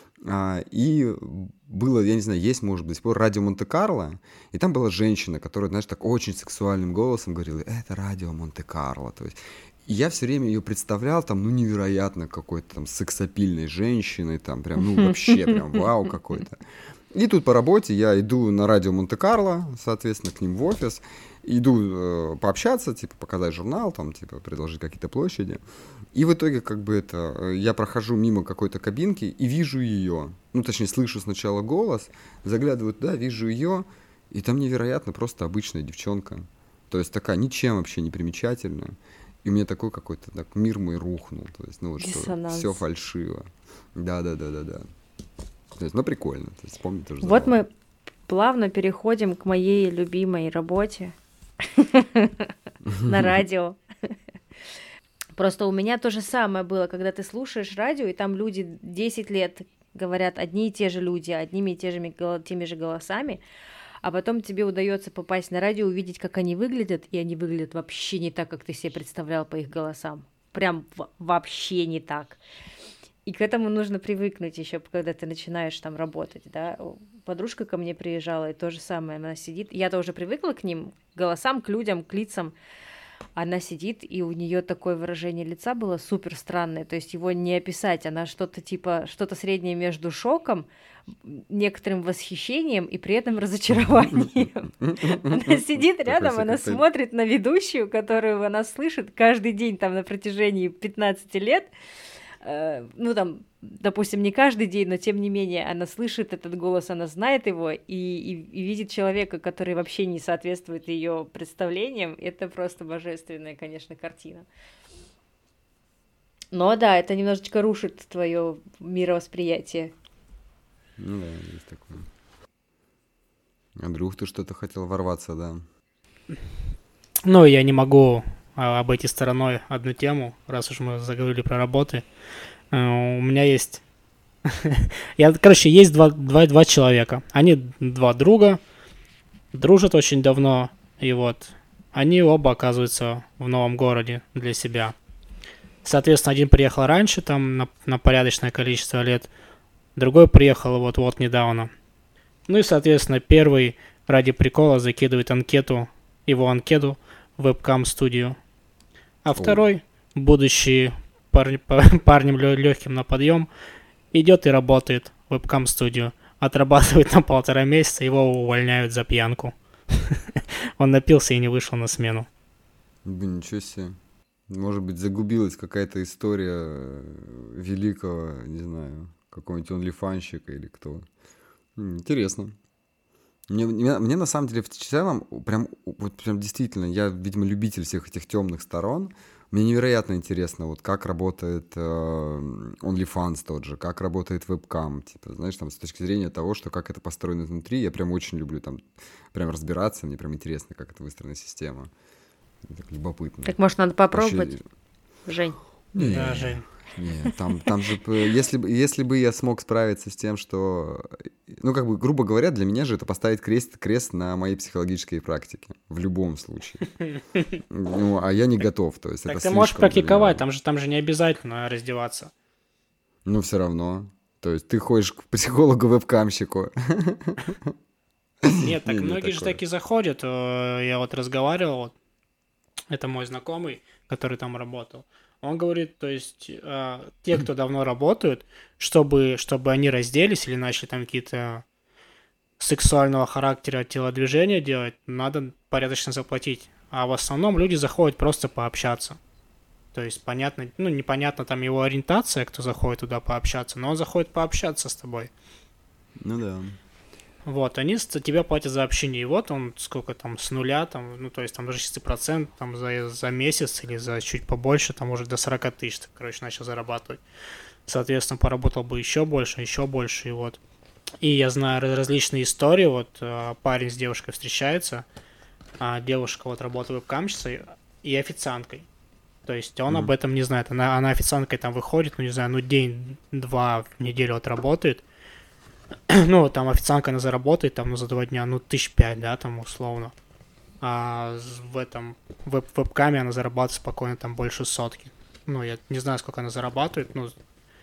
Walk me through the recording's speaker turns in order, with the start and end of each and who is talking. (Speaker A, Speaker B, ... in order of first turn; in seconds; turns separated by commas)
Speaker A: 0.2-25.6, Speaker A: 26.1-44.9, Speaker B: 42.0-42.8, Speaker A: 45.8-47.6, Speaker B: 47.2-47.7, Speaker B: 48.3-52.5, Speaker A: 52.9-53.2, Speaker B: 53.0-54.1, Speaker B: 55.3-63.4, Speaker B: 64.0-72.4, Speaker B: 73.2-82.5, Speaker B: 83.3-101.7, Speaker A: 94.8-96.8, Speaker B: 102.4-114.5, Speaker B: 116.5-119.9, Speaker A: 121.0-122.1, Speaker A: 123.8-125.6, Speaker C: 127.2-132.0, Speaker C: 132.7-133.8, Speaker C: 134.4-138.6, Speaker C: 139.5-144.9, Speaker C: 145.8-149.3, Speaker C: 149.9-151.7, Speaker C: 152.5-158.4, Speaker C: 159.2-163.5, Speaker A: 159.3-159.7, Speaker C: 164.1-172.3, Speaker A: 173.0-174.0, Speaker A: 174.5-181.0, Speaker A: 181.8-182.5, Speaker A: 183.5-201.9, Speaker A: 202.7-203.6, Speaker B: 203.4-204.6, Speaker A: 204.1-204.6, Speaker B: 205.2-205.6, Speaker A: 205.9-216.9, Speaker C: 205.9-206.7, Speaker A: 217.7-220.4, Speaker C: 219.3-222.3, Speaker A: 223.2-227.7, Speaker A: 228.4-229.6, Speaker C: 228.6-231.9, Speaker C: 232.9-241.6, Speaker C: 242.6-249.2, Speaker C: 249.9-255.3, Speaker A: 256.2-256.8, Speaker C: 257.4-267.2, Speaker C: 267.9-270.6, Speaker C: 271.2-275.0, Speaker C: 275.8-278.9, Speaker C: 279.4-285.0, Speaker C: 286.1-290.1, Speaker C: 290.8-297.3